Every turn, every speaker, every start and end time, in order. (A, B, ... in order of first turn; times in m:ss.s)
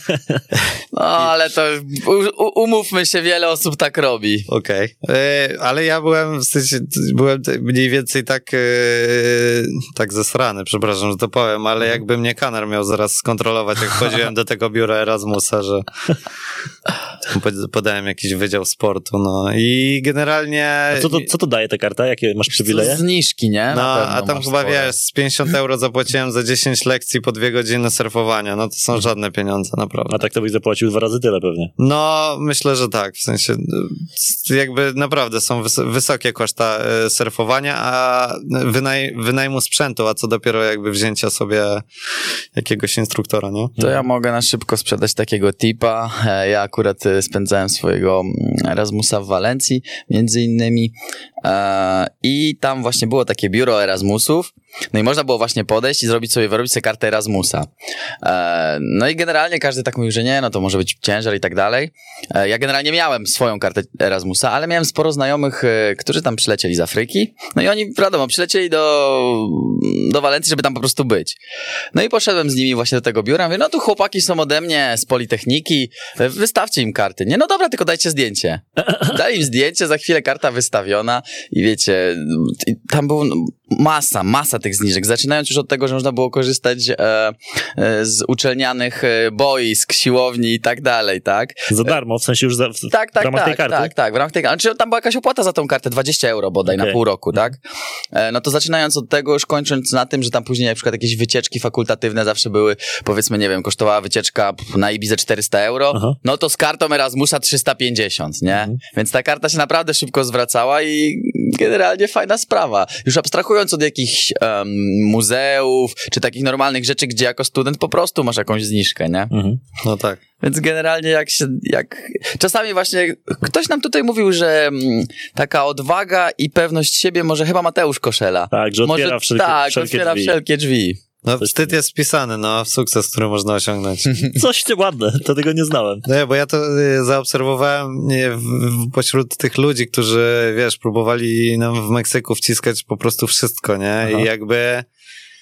0:00.5-0:01.3 A
0:00.9-0:04.5 B
0:04.5-0:15.9 A
0:17.3-0:21.3 A
0:20.9-0:23.0 C
0:22.6-0:24.9 B
0:23.7-0:30.2 A
0:30.1-0:31.7 C
0:31.8-0:41.8 A
0:42.5-0:43.8 A
0:43.8-0:57.7 B
0:58.2-1:11.4 B
1:11.9-1:31.9 B
1:31.7-1:33.9 C
1:32.9-1:37.6 B
1:36.7-1:37.0 C
1:38.1-1:59.3 B
1:48.5-1:48.8 C
1:59.3-1:59.6 C
1:59.8-2:00.2 A
2:00.4-2:11.0 B
2:08.5-2:10.3 C
2:11.2-2:14.2 A
2:11.4-2:11.7 C
2:14.3-2:16.0 C
2:16.0-2:24.9 A